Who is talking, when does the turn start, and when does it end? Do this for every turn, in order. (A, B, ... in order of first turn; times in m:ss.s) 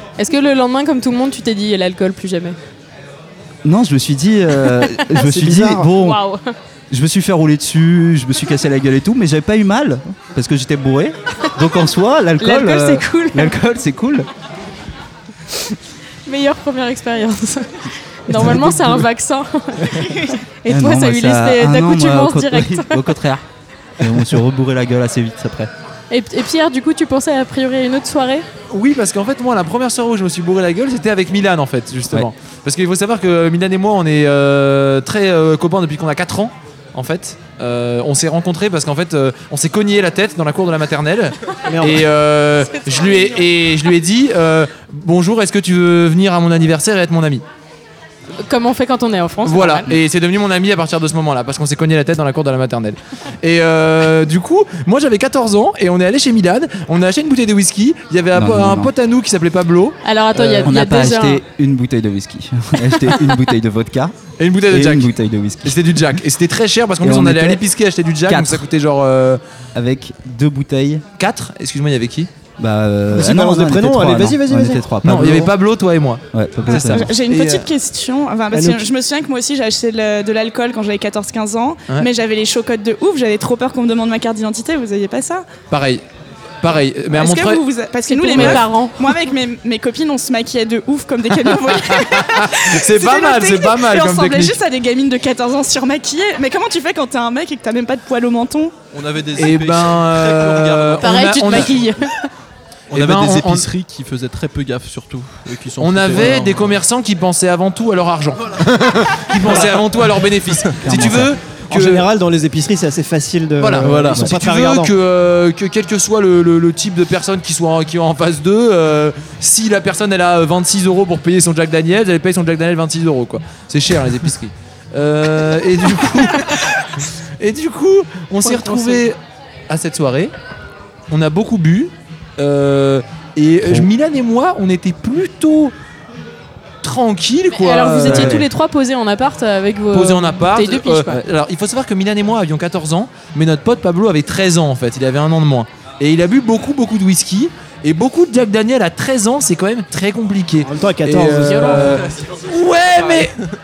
0:00.2-0:02.6 A
0:03.6-0:06.2 B
0:04.9-0:05.2 A
0:05.2-0:05.9 C
0:06.0-0:06.5 A
0:06.9-0:14.3 B
0:12.4-0:13.5 A
0:16.2-0:23.0 A
0:19.9-0:20.4 D
0:20.6-0:23.4 B
0:24.0-0:25.7 B
0:26.1-0:28.4 A
0:28.7-0:47.4 E
0:41.7-0:42.0 C
0:42.9-0:43.4 A
0:48.4-0:49.9 A
0:49.4-1:00.0 E
0:58.3-0:58.9 B
1:00.0-1:01.4 A
1:00.3-1:04.2 B
1:03.0-1:03.3 A
1:04.4-1:05.1 E
1:04.7-1:05.8 B
1:05.6-1:09.4 E
1:07.0-1:07.6 B
1:08.2-1:08.6 B
1:09.7-1:11.0 B
1:11.2-1:12.3 E
1:12.6-1:15.5 B
1:13.1-1:14.8 C
1:15.0-1:17.7 E
1:16.3-1:17.1 B
1:16.7-1:25.5 D
1:18.5-1:18.9 C
1:25.7-1:26.0 E
1:26.6-1:27.6 E
1:27.1-1:38.7 D
1:28.1-1:29.1 A
1:28.4-1:28.6 E
1:31.7-1:34.6 E
1:38.9-1:41.8 F
1:39.4-1:41.8 E
1:41.0-1:42.3 A
1:42.9-1:46.8 F
1:42.9-1:43.7 E
1:45.8-1:52.0 E
1:49.4-1:49.9 F
1:50.8-1:51.3 B
1:51.7-1:54.9 C
1:53.6-2:06.9 E
1:53.8-1:54.2 F
2:07.4-2:09.2 E
2:08.4-2:09.0 A
2:09.7-2:10.3 E
2:11.1-2:15.7 E
2:13.6-2:13.9 B
2:16.8-2:18.4 E
2:17.5-2:21.1 A
2:18.0-2:18.5 B
2:19.9-2:33.4 E
2:30.6-2:32.0 C
2:31.5-2:32.0 A
2:32.0-2:32.4 F
2:33.0-2:33.4 F